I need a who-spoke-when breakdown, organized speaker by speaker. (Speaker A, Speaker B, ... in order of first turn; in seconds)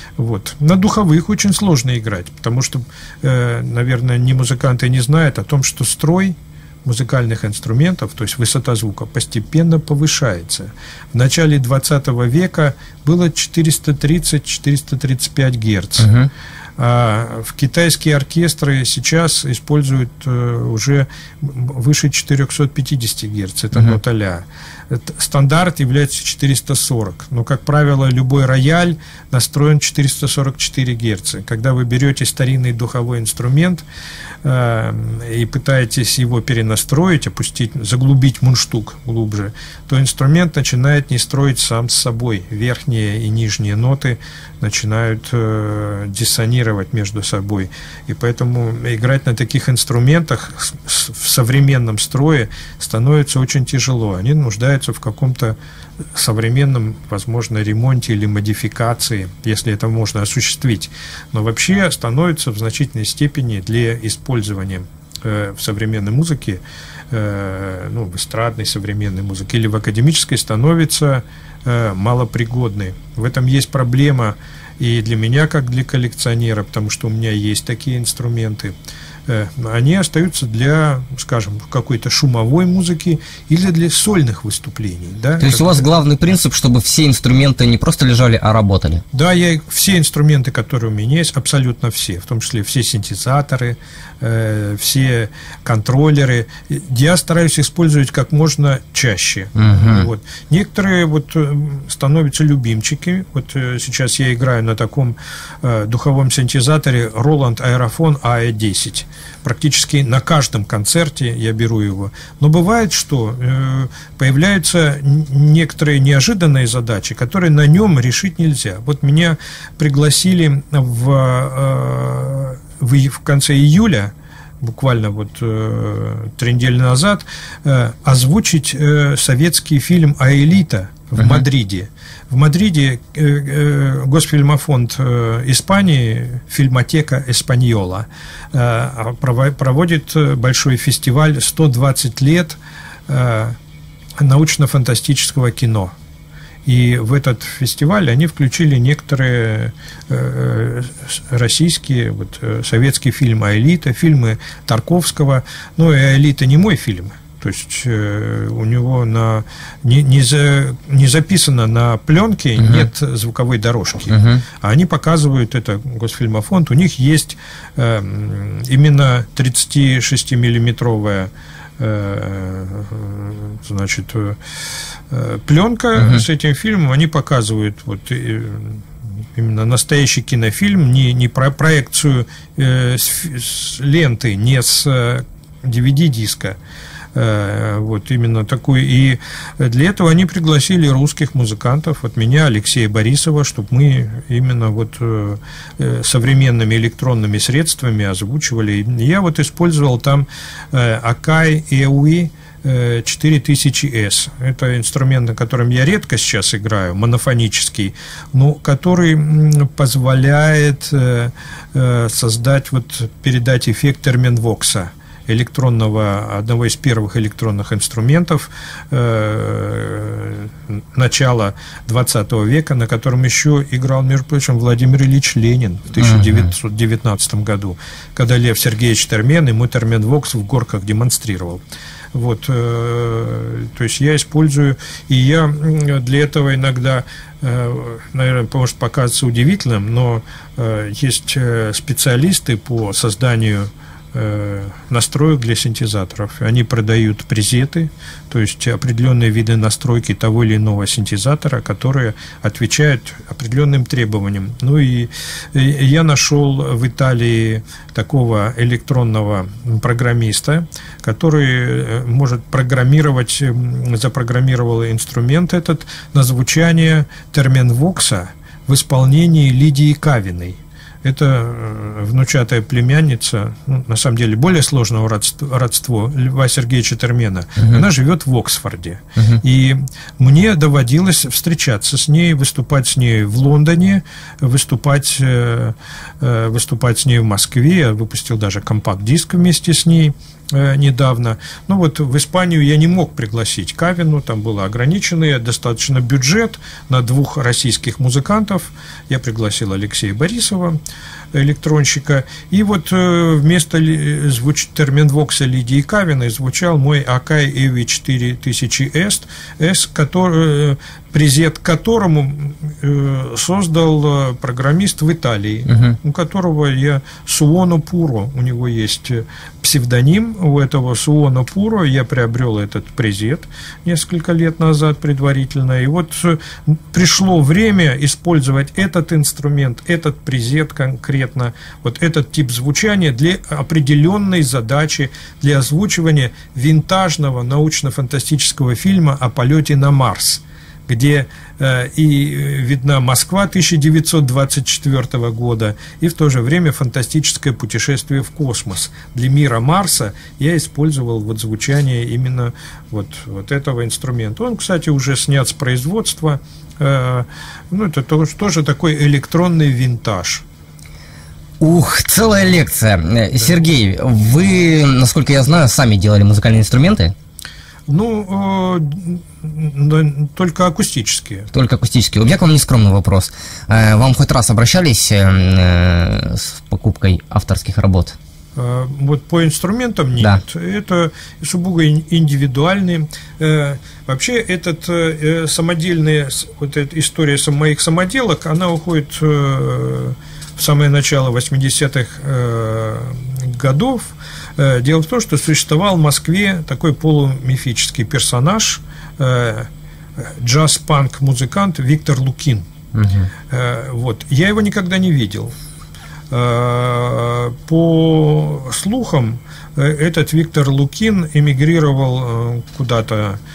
Speaker A: 0.2-16.1, 16.8-33.8, 34.4-55.6, 56.1-78.7, 79.3-85.8, 89.1-142.6, 143.1-143.6, 144.2-145.9, 146.7-174.4, 175.1-186.6, 187.1-231.6, 232.1-300.8, 301.3-360.4, 367.9-371.5, 378.6-399.7, 400.4-402.6, 403.5-405.5, 406.3-413.4
Speaker B: 16.0-16.3, 85.4-89.0, 99.5-100.1, 131.2-131.4, 162.6-162.9, 164.1-164.4, 176.0-176.2, 226.0-226.5, 315.7-315.9, 361.6-367.1, 371.5-378.2, 402.9-403.3